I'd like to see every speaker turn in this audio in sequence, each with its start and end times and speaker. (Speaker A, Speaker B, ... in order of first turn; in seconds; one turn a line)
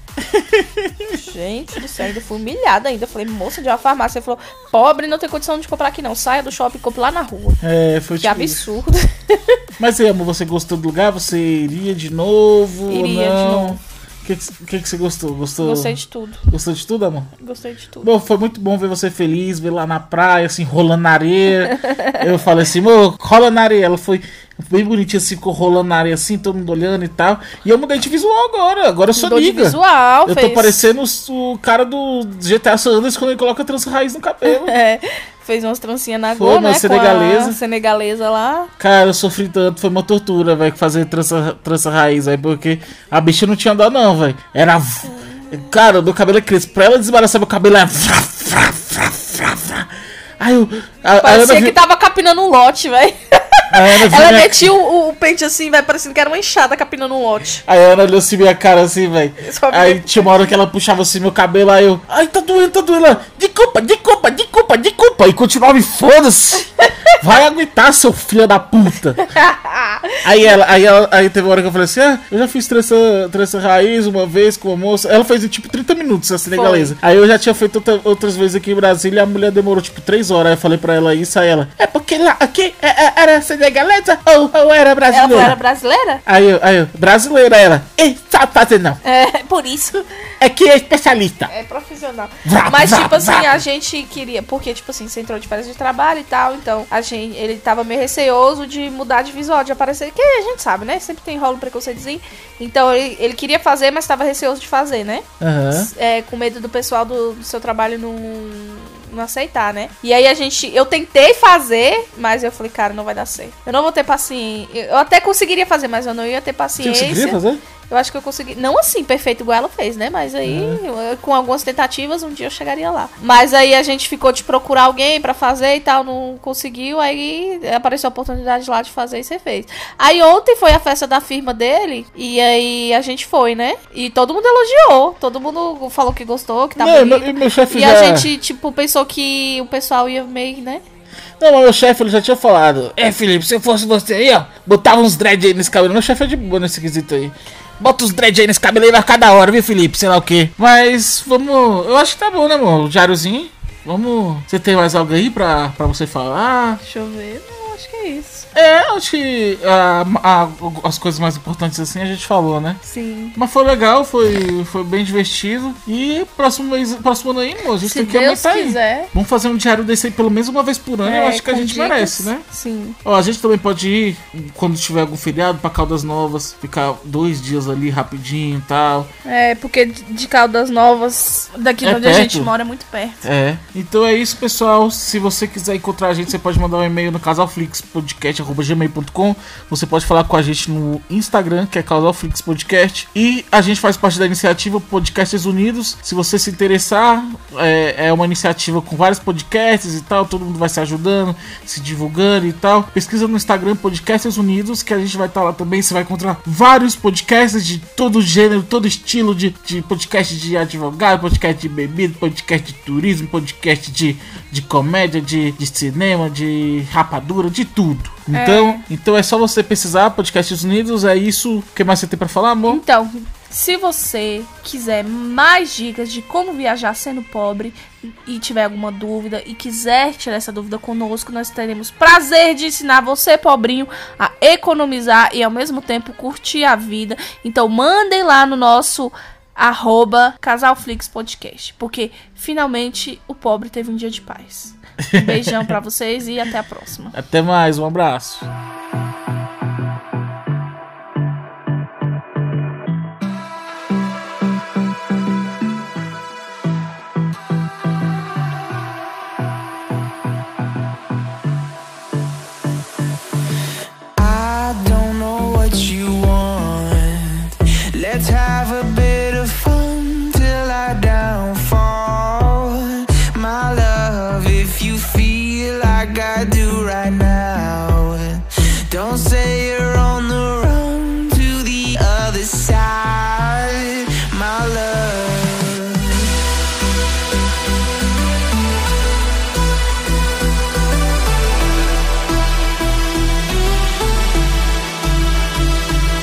Speaker A: 0.2-1.1
Speaker B: 1.1-7.6
Speaker A: 7.6-8.7
Speaker B: 8.2-9.6
Speaker A: 9.8-17.3
Speaker B: 12.9-13.8
Speaker B: 15.6-16.5
Speaker B: 17.4-18.1
Speaker A: 18.0-34.7
Speaker B: 21.6-22.3
Speaker B: 29.1-30.8
Speaker B: 34.5-38.7
Speaker A: 36.4-37.6
Speaker A: 38.8-49.9
Speaker B: 45.1-45.5
Speaker A: 50.4-51.8
Speaker B: 51.2-57.6
Speaker A: 53.7-54.7
Speaker A: 57.6-69.2
Speaker B: 59.4-60.4
Speaker B: 66.8-67.2
Speaker B: 69.2-70.5
Speaker A: 70.2-85.6
Speaker B: 76.5-76.9
Speaker B: 85.1-86.2
Speaker A: 86.3-89.0
Speaker B: 89.0-90.0
Speaker A: 90.4-91.5
Speaker B: 91.5-140.8
Speaker A: 92.4-93.6
Speaker A: 105.4-105.9
Speaker A: 116.8-117.6
Speaker A: 120.4-120.8
Speaker A: 136.8-138.3
Speaker A: 141.4-156.8
Speaker B: 156.8-158.5
Speaker A: 158.6-162.8
Speaker B: 162.9-163.4
Speaker A: 163.4-172.4
Speaker B: 167.8-169.1
Speaker B: 171.0-173.0
Speaker A: 173.1-179.1
Speaker B: 179.2-183.2
Speaker A: 181.8-182.5
Speaker A: 183.2-222.8
Speaker B: 218.3-218.8
Speaker B: 222.7-247.2
Speaker A: 245.0-245.8
Speaker A: 247.1-248.5
Speaker C: 264.2-286.3